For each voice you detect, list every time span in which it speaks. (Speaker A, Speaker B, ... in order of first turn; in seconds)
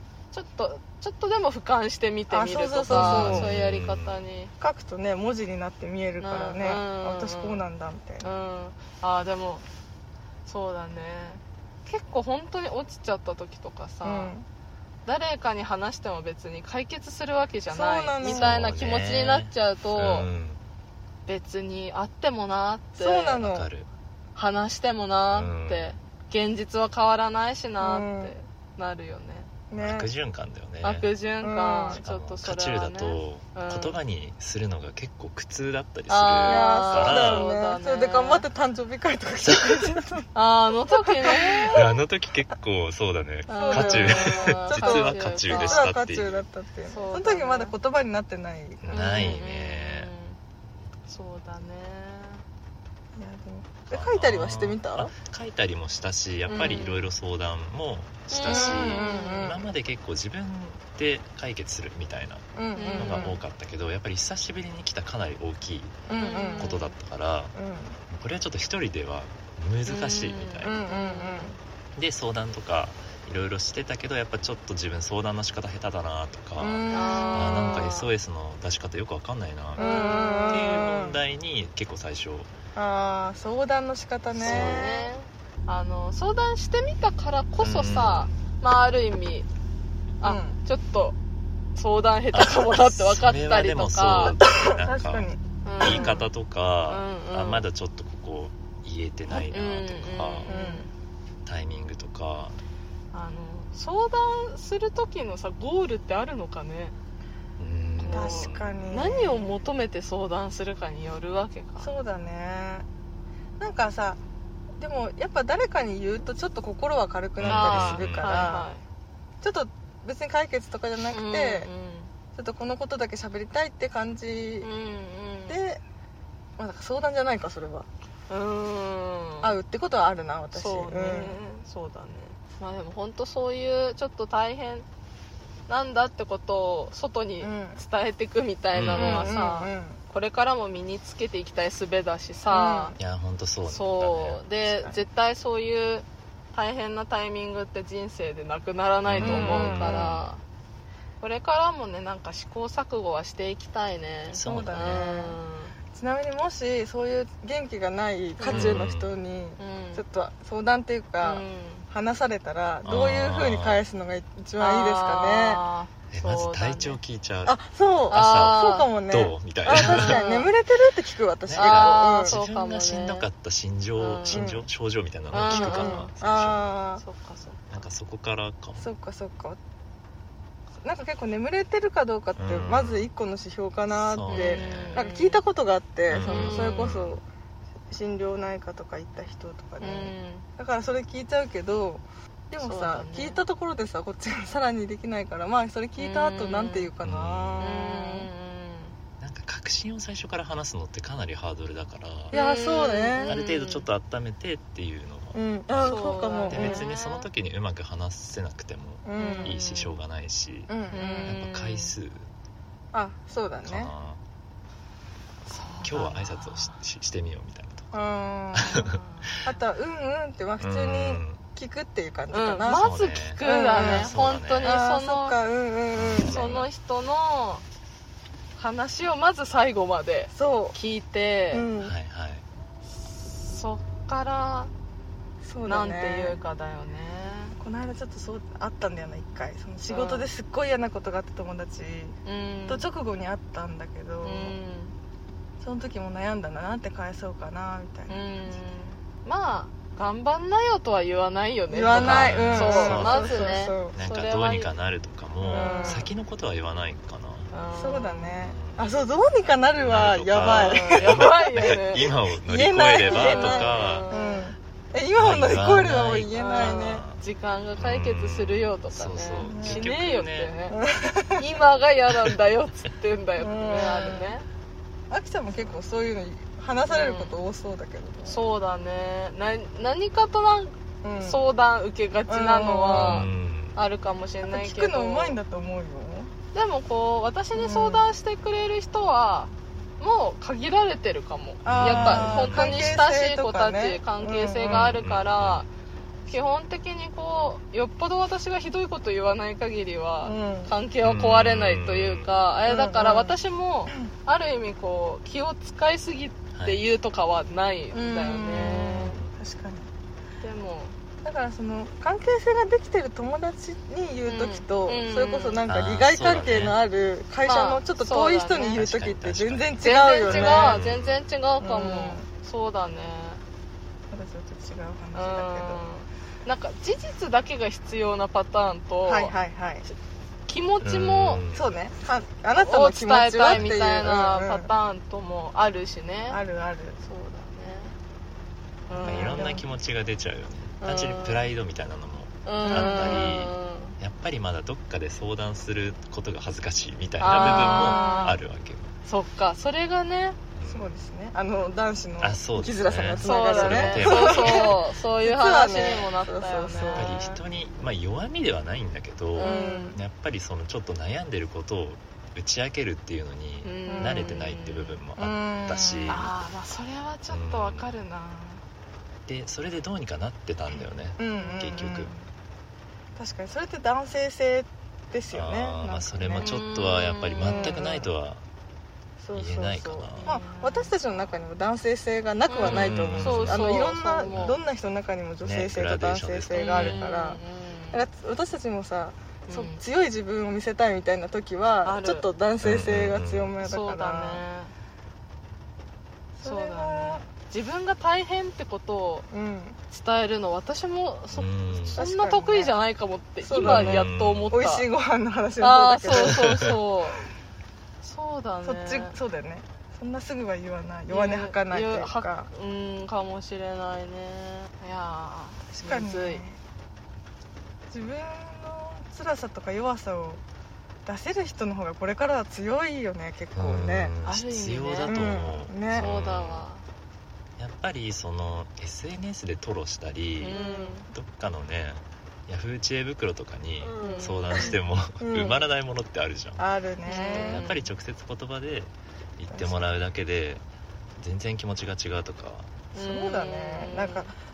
Speaker A: 0.3-4.5, 6.2-7.7, 8.2-9.6, 10.5-14.3, 15.1-20.3, 21.3-23.4, 24.4-29.5, 30.8-34.0, 36.1-38.5, 40.3-41.9, 43.5-45.9, 46.9-47.7, 48.9-50.4, 51.1-52.4, 56.5-57.1, 58.3-59.5, 62.7-63.3, 66.1-67.0, 69.8-71.6, 76.9-78.1, 79.8-80.9, 84.4-89.5, 90.2-91.2, 91.8-94.4, 95.7-96.3, 96.9-97.7, 99.3-100.9, 103.1-107.0, 108.0-111.9, 117.5-118.8, 121.1-122.1, 124.6-125.6, 128.3-129.6, 130.5-134.9, 135.7-142.9, 143.7-150.4, 151.2-155.8, 158.4-158.8, 159.6-160.0, 161.2-161.9, 164.6-167.0, 168.1-168.9, 169.7-170.5, 171.6-173.3, 174.0-174.4, 175.3-176.1, 177.0-177.7, 184.3-185.4, 186.2-187.1, 189.8-190.5, 192.6-193.4, 196.0-196.9, 197.6-199.0, 202.3-203.9, 205.8-207.3, 209.2-210.0, 210.9-211.9, 215.5-216.8, 218.6-219.5, 222.3-225.4, 226.2-227.6, 228.6-231.7, 233.0-234.7, 235.7-237.6, 239.9-240.3, 242.2-242.8, 244.2-244.9, 248.1-254.7, 255.5-256.1, 257.5-258.4, 260.4-262.1, 263.0-264.5, 266.4-270.8, 271.4-274.5, 276.9-277.4, 278.2-285.4, 286.5-295.7, 296.3-309.2, 310.4-310.9, 314.3-315.6, 317.4-318.8, 319.8-323.4, 325.1-329.4, 330.5-331.4, 332.6-336.4, 337.0-338.0, 338.9-339.6, 340.8-341.5, 342.5-344.0, 347.2-348.4, 349.1-350.4, 353.2-357.4, 359.4-360.0, 363.6-365.0, 366.1-368.6, 371.3-372.3, 376.4-377.9, 380.2-381.3, 382.5-384.6, 386.6-388.0, 389.5-389.8, 391.8-392.3, 393.6-394.7, 396.4-399.3, 399.9-404.9, 405.6-407.2, 408.0-409.2, 411.1-416.4, 424.2-425.2, 425.9-426.9, 430.4-431.1, 434.0-434.7, 437.1-437.8, 442.9-444.3
Speaker B: 2.3-3.5, 4.6-8.3, 14.0-14.5, 17.7-18.6, 23.0-23.7, 27.8-28.3, 29.7-30.1, 31.4-32.0, 36.5-40.3, 40.9-41.8, 43.6-48.9, 53.2-55.1, 58.5-59.7, 62.6-63.4, 66.1-66.8, 67.5-68.0, 70.6-71.6, 76.6-77.7, 79.8-81.2, 82.8-85.1, 90.2-90.6, 94.4-96.2, 100.5-100.9, 108.1-109.5, 111.8-112.9, 113.6-114.2, 114.8-118.7, 119.4-121.7, 122.3-124.7, 125.5-125.8, 126.6-127.9, 129.4-131.4, 137.4-137.8, 138.9-140.0, 142.5-143.0, 144.7-145.0, 149.2-150.2, 154.4-155.4, 155.9-165.6, 167.4-172.4, 174.3-174.7, 175.4-177.0, 178.8-179.6, 180.8-187.2, 187.9-198.3, 202.3-203.4, 205.3-206.8, 209.1-209.6, 210.7-211.4, 212.9-213.9, 217.9-218.8, 219.4-222.9, 223.4-226.6, 230.3-230.8, 231.5-231.9, 235.4-236.4, 237.6-242.2, 242.7-244.6, 245.6-248.2, 251.7-253.9, 255.4-256.1, 257.7-261.8, 262.4-267.0, 269.4-269.9, 270.7-271.4, 273.4-274.3, 275.1-278.4, 281.0-281.4, 282.3-283.3, 284.4-286.3, 287.6-288.1, 291.6-295.0, 300.2-300.7, 302.7-303.4, 307.9-309.9, 311.2-320.8, 321.6-322.3, 324.1-325.9, 329.1-329.9, 331.5-334.7, 336.3-337.0, 339.0-339.6, 342.6-343.3, 347.3-348.4, 350.6-357.2, 359.4-360.0, 363.9-364.3, 365.2-366.1, 371.2-372.1, 373.2-376.6, 377.4-378.1, 379.2-387.4, 387.9-394.4, 396.4-397.2, 399.3-399.8, 401.9-402.7, 403.4-406.7, 408.6-412.5, 415.7-416.6, 417.9-420.4, 421.1-424.1, 425.1-426.1, 430.5-431.0, 433.8-435.6, 436.6-437.7, 439.5-439.9, 442.9-444.3
Speaker C: 2.9-4.2, 18.2-20.6, 23.4-23.9, 25.3-25.9, 29.8-31.1, 31.9-37.5, 39.4-40.0, 41.7-46.4, 48.8-50.1, 53.9-66.0, 66.6-67.5, 68.1-70.7, 72.0-82.5, 84.3-85.0, 87.6-88.3, 92.3-100.5, 101.5-102.6, 107.6-108.7, 117.4-118.6, 138.7-139.3, 143.0-144.4, 149.1-150.3, 154.3-155.0, 158.5-159.2, 162.8-163.8, 166.1-170.2, 171.5-176.8, 177.7-178.9, 182.4-183.1, 184.1-185.1, 186.1-187.2, 197.0-197.7, 199.2-202.3, 203.3-212.3, 213.7-214.2, 215.8-218.0, 218.5-219.0, 220.6-221.4, 222.7-224.8, 225.9-226.7, 231.8-232.4, 251.9-257.5, 258.4-258.9, 259.8-264.1, 265.2-267.2, 267.8-270.5, 282.9-283.8, 291.7-293.0, 294.7-295.6, 301.0-302.3, 306.5-306.8, 308.5-309.3, 315.7-316.8, 318.7-321.2, 330.8-331.7, 333.5-333.8, 339.0-348.9, 350.6-350.9, 352.2-354.8, 356.7-366.3, 367.3-367.9, 369.3-372.1, 375.3-378.4, 379.4-380.3, 382.6-384.6, 385.4-387.0, 392.6-393.6, 401.3-402.0, 403.6-404.6, 406.1-406.8, 423.6-426.7, 427.6-430.6, 431.1-436.6, 437.2-440.6, 441.2-442.7